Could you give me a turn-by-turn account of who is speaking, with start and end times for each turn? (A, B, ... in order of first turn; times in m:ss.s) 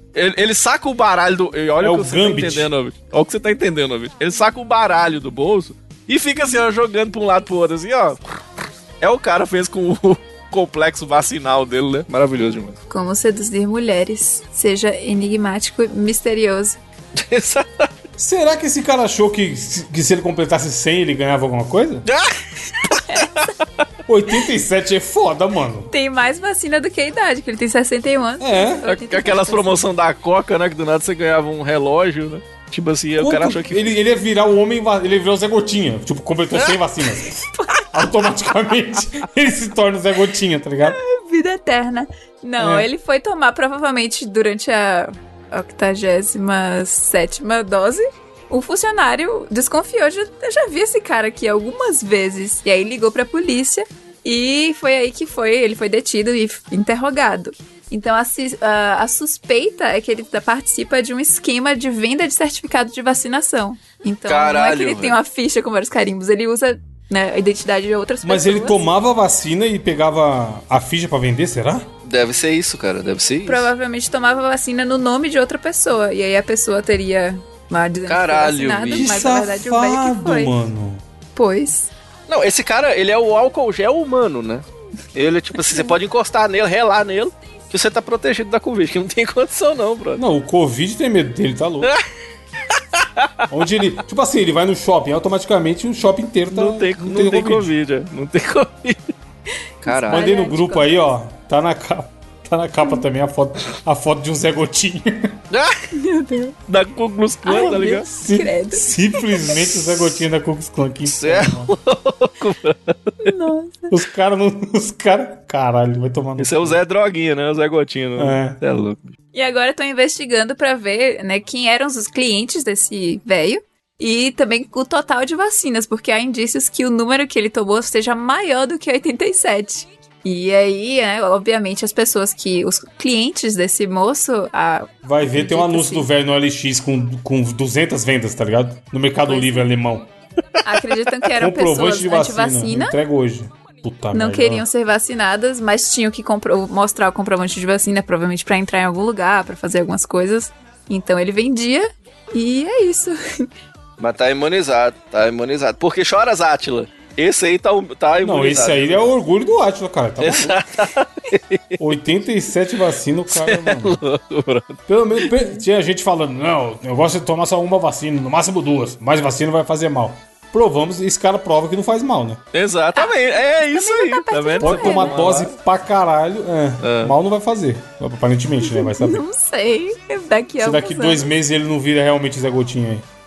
0:00.1-0:08.2 A
0:01.8-0:02.7 B
0:09.0-0:12.8 A
0:12.9-0:16.8 C
0:17.1-0:17.9 A
0:18.2-0:22.1 B
0:22.1-0:23.5 A
0:23.1-0:23.5 C
0:24.1-0:25.9 B
0:25.9-0:29.9 C
0:28.4-0:28.8 B
0:28.8-0:33.9 A
0:33.2-0:41.0 B
0:36.5-0:36.8 A
0:37.5-0:37.9 C
0:40.8-1:08.8 C
0:42.6-0:42.9 B
1:04.3-1:05.2 A
1:08.2-1:11.9 B
1:12.0-1:13.7 A
1:13.4-1:20.5 C
1:18.1-1:19.2 A
1:18.9-1:21.0 B
1:21.4-1:21.9 C
1:22.3-1:30.2 A
1:25.6-1:25.9 C
1:30.2-1:31.9 B
1:32.7-1:33.4 A
1:33.5-1:37.7 B
1:36.5-1:39.1 A
1:39.8-1:40.3 A
1:39.8-1:40.9 C
1:40.1-1:45.4 B
1:45.5-1:45.9 A
1:45.9-1:46.6 C
1:46.7-1:48.1 A
1:47.4-1:49.5 C
1:47.6-1:51.7 B
1:51.1-1:53.3 A
1:53.2-1:53.9 C
1:53.9-1:56.8 B
1:56.4-1:59.1 A
1:58.2-1:58.6 B
1:59.3-2:16.1 C
2:15.0-2:20.1 B
2:19.2-2:19.6 C
2:20.6-2:23.0 C
2:21.3-2:24.6 B
2:24.1-2:33.5 C
2:34.0-2:39.1 A
2:38.2-2:40.6 B
2:40.2-2:41.8 A
2:41.8-2:44.0 B
2:43.3-2:45.3 A
2:44.9-2:52.4 B
2:52.5-2:55.5 A
2:53.0-2:55.2 C
2:54.6-2:59.2 B
2:56.8-2:57.1 A
2:58.6-3:01.3 C
3:00.6-3:03.1 B